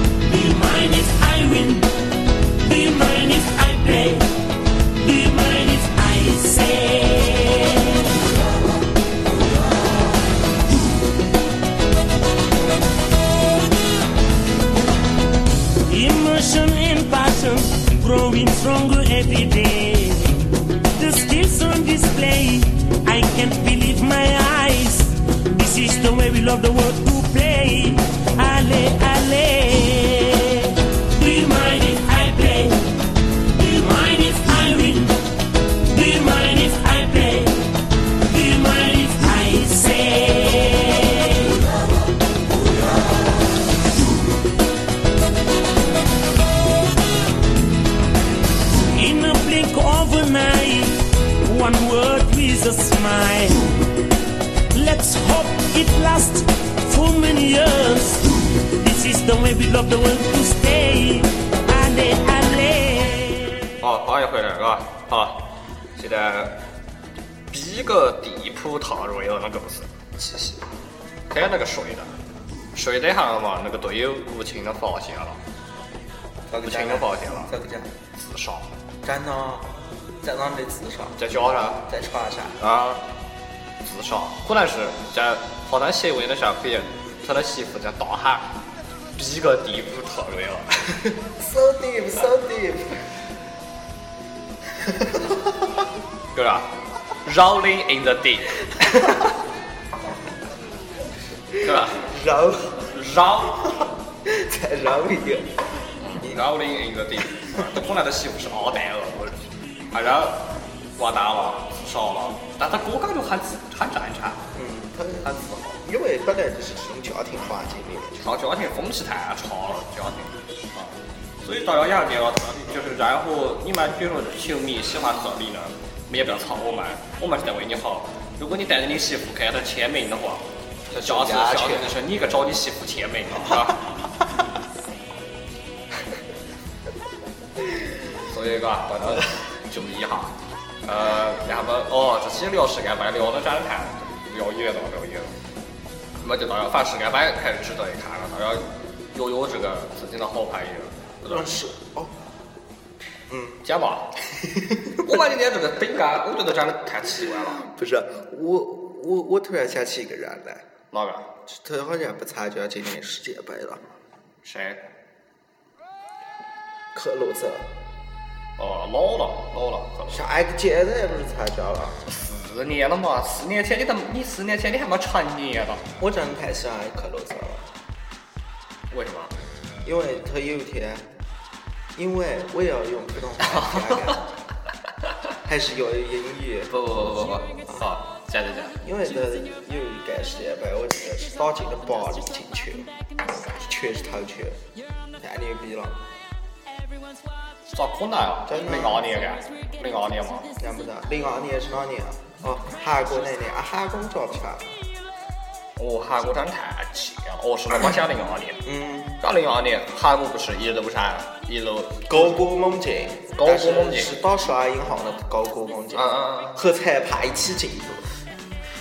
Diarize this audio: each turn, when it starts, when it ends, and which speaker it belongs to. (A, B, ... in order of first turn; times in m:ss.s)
0:00.2-0:01.9 A
0:02.6-0:04.3 A
0:05.0-0:08.2 A
0:15.8-0:33.0 A
0:33.5-0:35.2 A
0:35.8-0:41.6 A
0:48.9-0:53.8 A
0:54.7-1:03.7 A
1:03.8-1:06.6 B
1:07.5-1:10.5 B
1:11.3-1:12.1 B
1:12.7-1:15.4 B
1:16.5-1:17.9 C
1:16.6-1:17.5 B
1:18.2-1:18.7 B
1:19.0-1:21.2 C
1:21.2-1:21.9 B
1:21.9-1:22.6 C
1:22.6-1:23.0 B
1:23.8-1:28.5 B
1:29.2-1:31.2 B
1:31.4-1:33.1 C
1:34.7-1:35.8 C
1:36.3-1:39.2 B
1:38.8-1:39.2 C
1:41.6-1:42.1 B
1:41.7-1:42.9 C
1:42.8-1:43.8 B
1:43.7-1:46.4 C
1:46.0-1:54.4 B
1:54.5-1:58.3 C
1:58.2-2:14.0 B
2:11.0-2:12.0 C
2:18.2-2:25.3 B
2:26.2-2:31.5 B
2:31.2-2:32.2 C
2:33.3-2:33.6 C
2:33.6-2:34.2 B
2:34.2-2:35.2 C
2:35.0-2:37.7 B
2:37.5-2:40.6 C
2:40.9-2:41.3 B
2:41.5-2:43.8 C
2:44.4-2:44.8 B
2:46.9-2:47.7 C
2:48.6-2:50.2 B
2:50.1-2:52.0 C
2:52.0-2:55.8 B
2:56.0-2:57.7 C
2:58.9-2:59.3 B
2:59.8-3:01.1 C
3:02.0-3:04.3 C
3:03.5-3:04.2 B
3:05.4-3:06.7 C
3:06.7-3:08.8 B
3:08.8-3:12.9 C
3:13.6-3:14.6 C
3:15.2-3:16.0 C
3:17.7-3:20.5 B
3:18.5-3:19.0 C
3:20.6-3:24.7 C
3:25.8-3:28.6 B
3:28.6-3:29.2 C
3:29.2-3:32.4 B
3:32.1-3:38.2 C
3:33.4-3:34.2 B
3:35.9-3:36.6 B